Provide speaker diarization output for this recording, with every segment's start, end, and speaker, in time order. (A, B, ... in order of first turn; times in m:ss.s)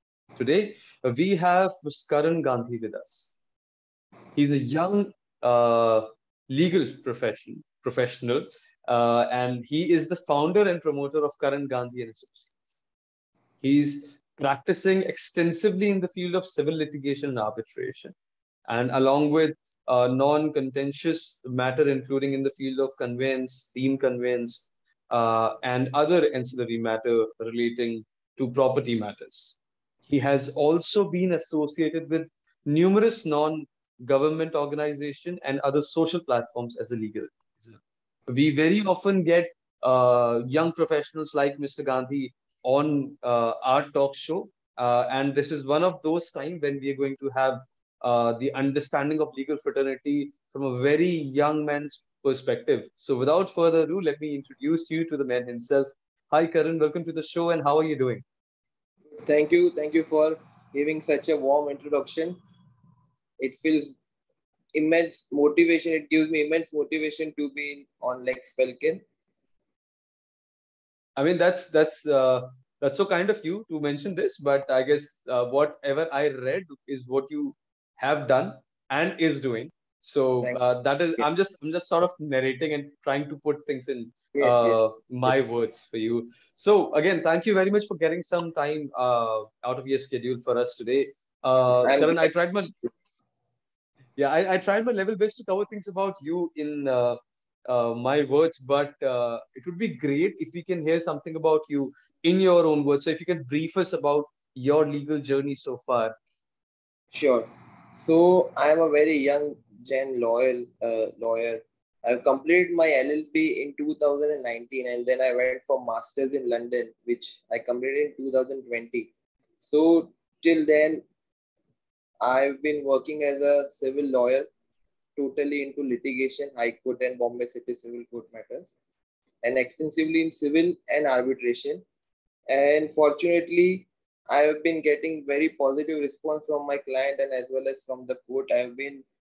0:00.4-0:03.3 A
0:04.4-0:12.6 A
0:13.6-0:18.1 A
0:18.7-0:29.6 A
0:30.1-0:58.2 A
0:59.2-1:02.4 B
1:03.4-1:04.0 B
1:04.7-1:09.0 B
1:11.2-1:32.7 A
1:24.3-1:25.3 B
1:31.8-1:32.3 B
1:34.2-1:46.1 A
1:47.1-1:59.1 B
1:59.6-2:01.0 B
2:02.2-2:04.5 B
2:05.2-2:08.7 B
2:09.4-2:11.8 B
2:12.5-2:19.0 B